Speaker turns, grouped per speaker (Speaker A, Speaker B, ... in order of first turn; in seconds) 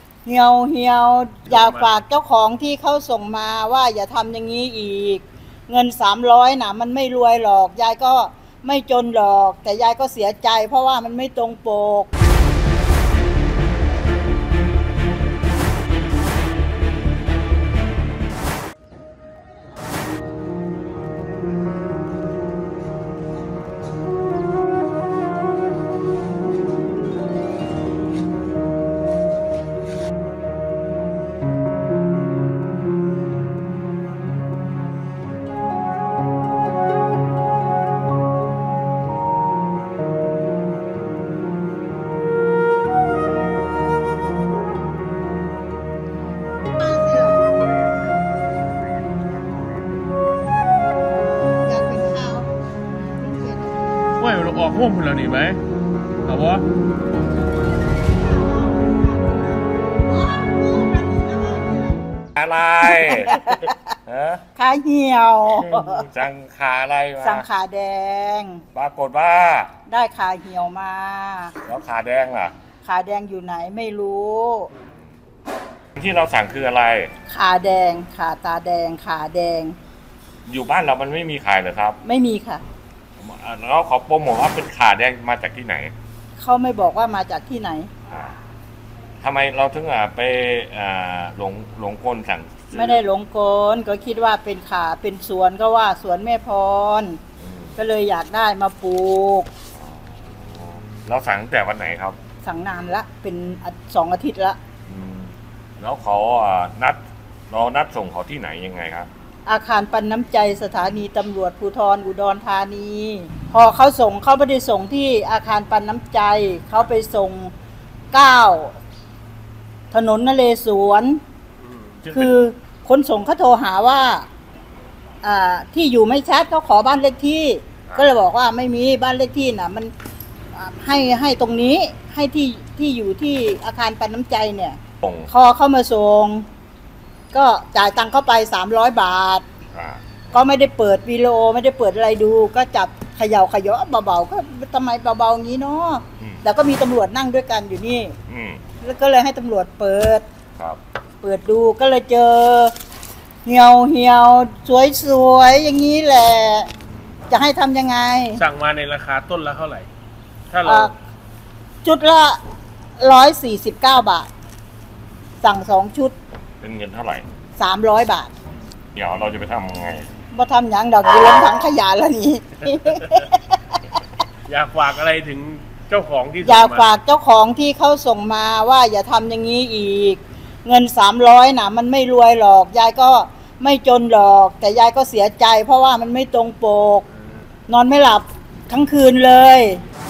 Speaker A: 0.2-12.1, 46.8-47.5, 51.6-52.5, 53.2-53.8, 58.4-59.0, 60.2-62.0, 62.8-63.8, 64.5-66.1, 67.2-68.6, 69.9-71.5, 72.8-74.7, 77.3-79.8, 82.0-82.6, 86.4-87.9, 92.7-97.2, 97.8-99.5, 102.4-104.6, 109.5-117.5, 118.1-118.7, 119.9-121.2, 122.1-124.3, 125.2-129.9, 130.5-134.8, 135.3-136.4, 137.3-139.4, 140.3-148.1, 148.8-150.2, 151.2-152.7, 153.5-156.7, 157.3-158.4, 160.7-160.9, 161.8-162.4, 163.0-164.3, 165.4-166.1, 167.6-168.3, 170.3-174.0, 176.4-187.1, 187.7-189.8
Speaker B: 1.5-1.9, 54.2-55.6, 56.3-56.6, 121.6-122.0, 158.4-159.9, 160.5-160.9, 174.5-176.9
Speaker C: 62.4-63.5, 64.1-64.4, 65.6-67.5, 68.7-69.7, 71.6-72.5, 76.0-77.1, 80.5-82.0, 83.2-85.9, 88.1-88.3, 89.2-93.0, 97.4-97.8, 99.8-102.2, 104.9-109.1, 122.0-122.3, 135.0-135.3, 139.7-140.0, 146.2-146.4, 148.3-148.6, 166.6-167.3, 168.9-170.1